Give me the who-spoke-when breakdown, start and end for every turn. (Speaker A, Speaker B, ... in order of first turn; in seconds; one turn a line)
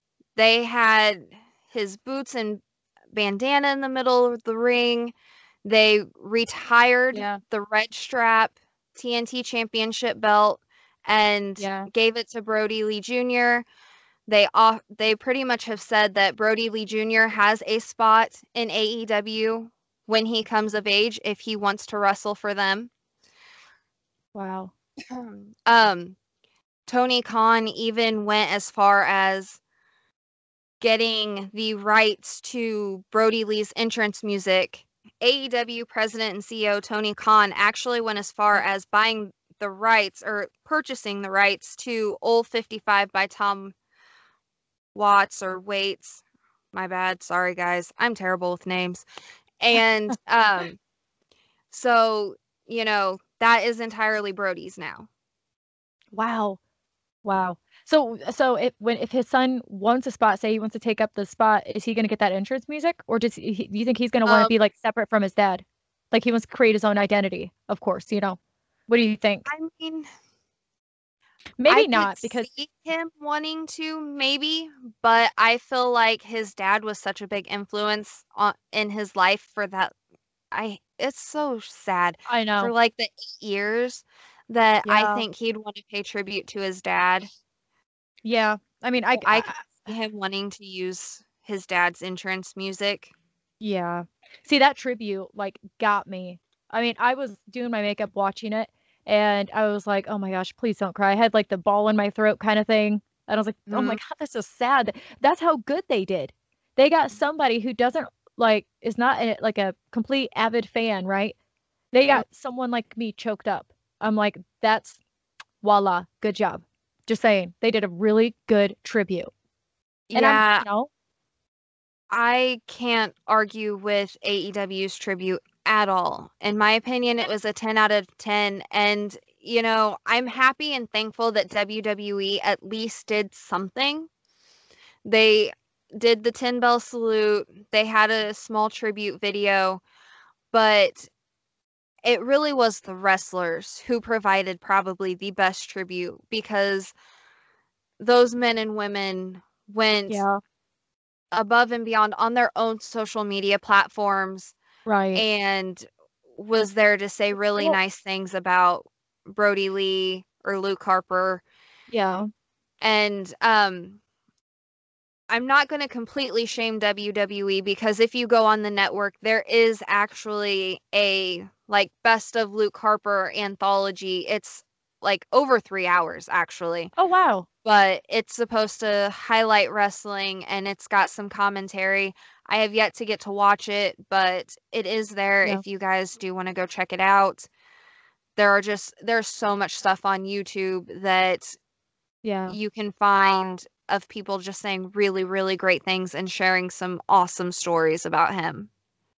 Speaker A: 0.3-13.7
Speaker B: 7.1-7.4
Speaker B: 11.6-11.9
Speaker A: 14.3-22.9
Speaker B: 24.3-24.7
Speaker A: 25.1-26.1
Speaker A: 26.9-29.6
Speaker A: 30.8-43.7
Speaker A: 44.9-49.0
Speaker A: 49.6-50.8
Speaker A: 51.7-55.1
Speaker B: 56.1-56.6
Speaker B: 57.2-69.5
Speaker A: 64.2-64.5
Speaker A: 69.5-70.1
Speaker B: 71.6-72.5
Speaker A: 71.7-79.9
Speaker A: 80.5-87.3
Speaker B: 82.3-82.7
Speaker B: 84.8-85.3
Speaker B: 88.2-89.8
Speaker A: 89.2-93.1
Speaker B: 93.6-111.3
Speaker A: 103.7-104.0
Speaker B: 111.9-115.0
Speaker B: 115.6-119.3
Speaker A: 120.1-120.7
Speaker B: 120.1-120.9
Speaker A: 122.1-134.1
Speaker A: 135.0-139.8
Speaker A: 140.5-141.1
Speaker A: 142.0-146.9
Speaker A: 148.0-150.2
Speaker B: 150.1-150.4
Speaker A: 151.3-154.5
Speaker B: 154.8-155.2
Speaker A: 155.1-155.8
Speaker A: 156.3-161.4
Speaker B: 161.9-162.3
Speaker A: 162.8-164.0
Speaker A: 165.3-176.9
Speaker B: 176.9-177.5
Speaker A: 177.6-187.5
Speaker A: 188.3-191.6
Speaker B: 192.2-192.6
Speaker A: 192.5-198.7